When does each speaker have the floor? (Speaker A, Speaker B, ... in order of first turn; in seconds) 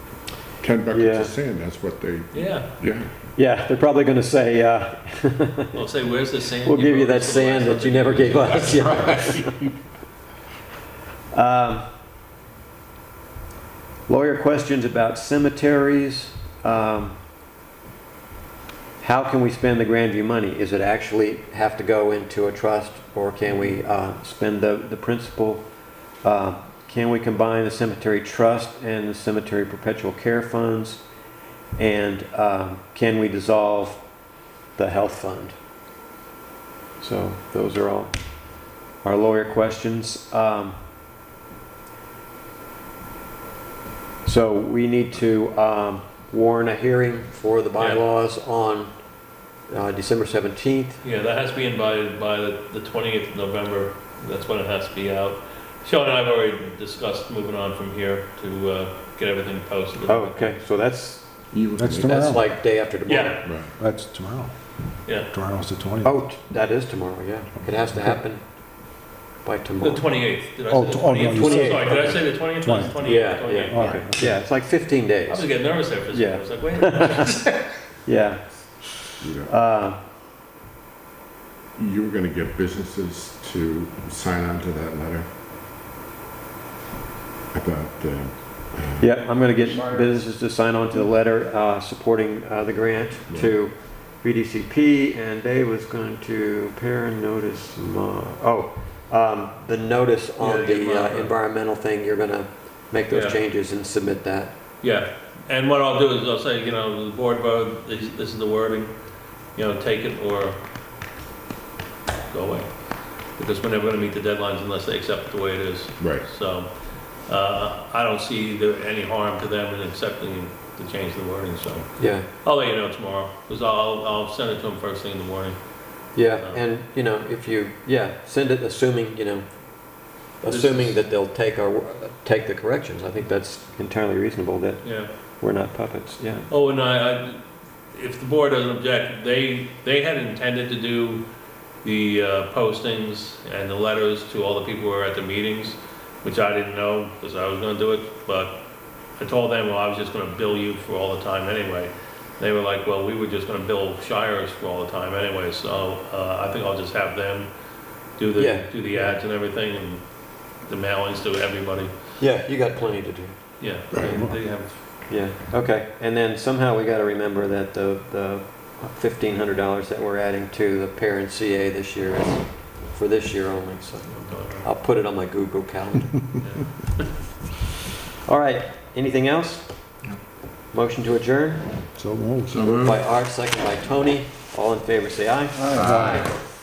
Speaker A: 0.6-3.1, 8.9-9.8, 61.5-62.4, 63.5-63.7, 79.2-79.5, 81.8-85.3, 87.5-89.1, 116.0-116.3, 182.5-183.0, 185.7-186.4
Speaker B: 0.9-1.3, 3.4-5.8, 6.6-9.6, 11.3-11.8, 14.1-17.2, 19.0-25.6, 26.2-31.0, 31.8-34.0, 34.8-35.5, 37.0-38.2, 39.0-40.8, 44.2-49.0, 49.7-51.0, 60.1-61.3, 62.0-63.4, 66.0-68.5, 69.4-70.1, 71.2-72.2, 73.0-75.5, 76.1-77.4, 78.1-78.4, 79.5-80.0, 89.0-104.5, 122.0-122.3, 126.1-129.5, 130.3-136.5, 158.4-159.2, 162.2-163.4, 165.1-176.2, 178.2-179.7, 180.7-181.7, 182.7-185.8
Speaker C: 2.3-2.7, 5.7-9.2, 51.0-60.6, 63.1-63.5, 65.0-65.3, 69.8-74.1, 75.3-77.7, 100.4-101.3, 103.1-103.4, 104.8-110.6, 112.3-126.6, 130.4-131.0, 134.8-135.1, 136.5-141.3, 141.8-148.6, 149.2-157.5, 158.2-161.9, 163.6-164.8, 174.1-174.7, 176.4-177.1
Speaker D: 61.8-62.4, 63.6-66.2, 70.7-74.4, 164.0-164.3, 182.0-182.7, 185.7-186.3